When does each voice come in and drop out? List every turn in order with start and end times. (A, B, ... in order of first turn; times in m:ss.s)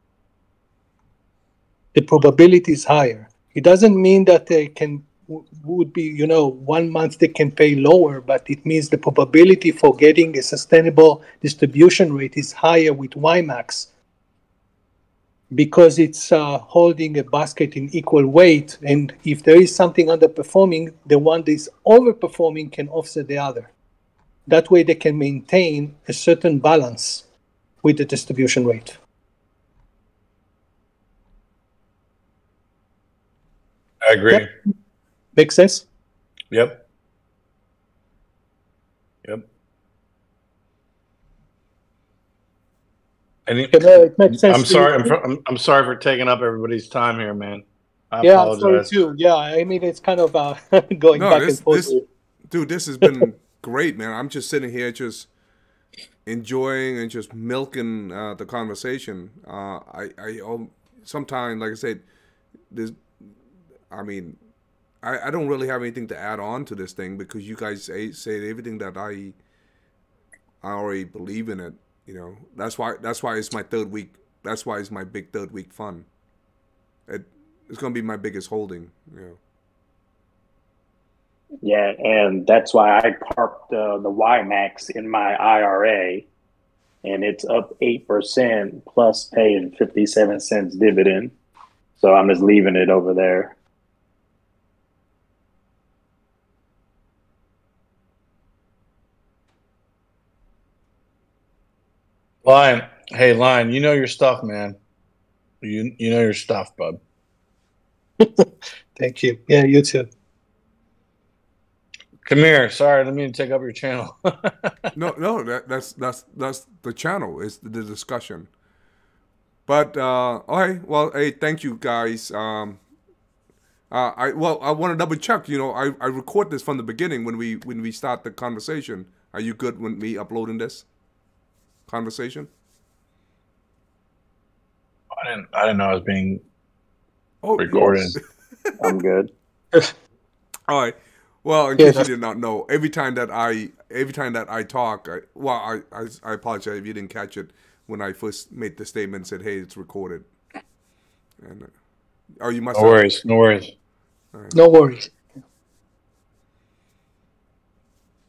0:01.9-0:13.9 A
0:15.5-0:23.7 A
0:24.5-0:27.3 A
0:27.8-0:29.0 A
0:34.0-0:34.5 B
0:34.3-0:34.7 A
0:35.4-0:35.9 A
0:36.5-0:36.8 B
0:43.5-0:48.9 B
0:43.7-0:45.2 A
0:48.2-0:52.0 A
0:51.1-0:52.0 C
0:52.5-0:55.3 C
0:56.3-1:02.0 C
1:02.7-1:03.0 C
1:03.9-1:04.4 C
1:05.0-1:09.4 C
1:10.6-1:16.1 C
1:17.1-1:19.4 C
1:21.6-1:26.3 D
1:27.0-1:31.4 D
1:32.0-1:33.6 D
1:42.4-1:44.8 B
1:45.6-1:47.0 B
1:48.2-1:50.1 A
1:52.2-1:54.7 B
1:54.9-1:58.5 C
1:59.7-2:02.8 C
2:03.9-2:10.9 C
2:11.9-2:12.5 C
2:15.1-2:16.4 B
2:17.4-2:18.2 C
2:17.6-2:18.2 B
2:18.8-2:19.3 D
2:20.7-2:30.3 C
2:21.8-2:22.1 A
2:31.4-2:31.7 C
2:32.4-2:33.1 C
2:32.7-2:33.7 B
2:34.3-2:34.6 C
2:34.5-2:35.2 A